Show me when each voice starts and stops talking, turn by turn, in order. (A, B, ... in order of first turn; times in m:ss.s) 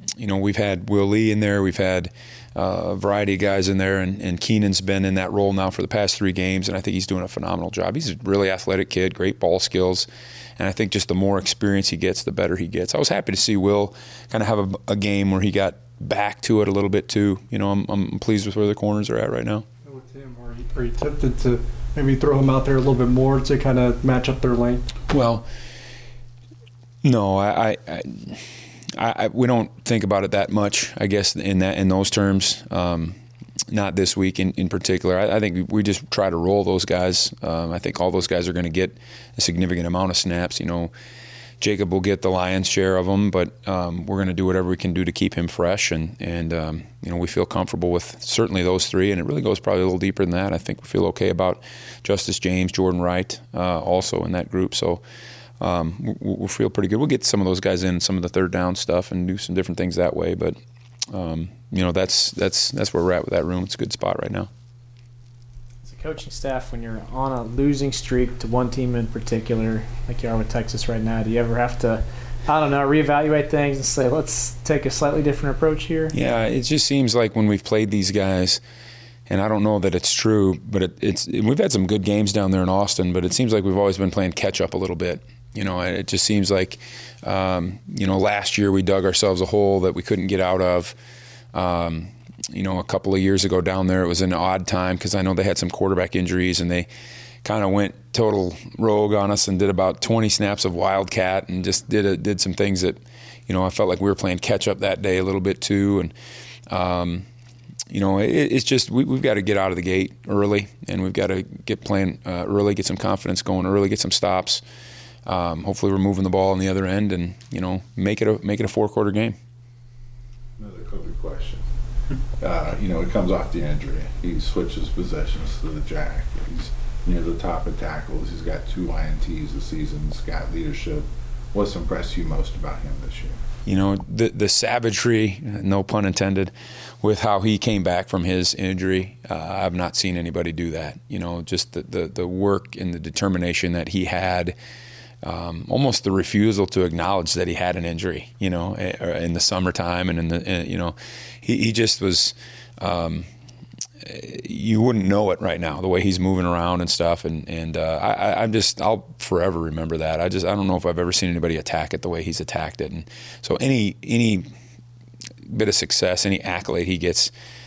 0:00.2-0:19.6 A
0:19.8-0:24.9 B
0:25.1-0:25.5 A
0:27.0-0:33.2 A
0:33.7-0:40.9 A
0:41.6-0:55.0 A
0:55.6-1:00.6 A
1:01.1-1:04.5 A
1:05.8-1:16.2 C
1:16.1-1:18.6 A
1:19.3-1:31.0 A
1:31.5-1:36.9 A
1:37.4-1:46.1 A
1:46.7-1:47.3 A
1:47.9-1:54.6 A
1:55.3-1:59.4 A
2:00.6-2:01.6 D
2:02.4-2:13.4 D
2:13.6-2:24.6 A
2:25.2-2:33.3 A
2:34.0-2:44.5 A
2:45.5-2:47.3 A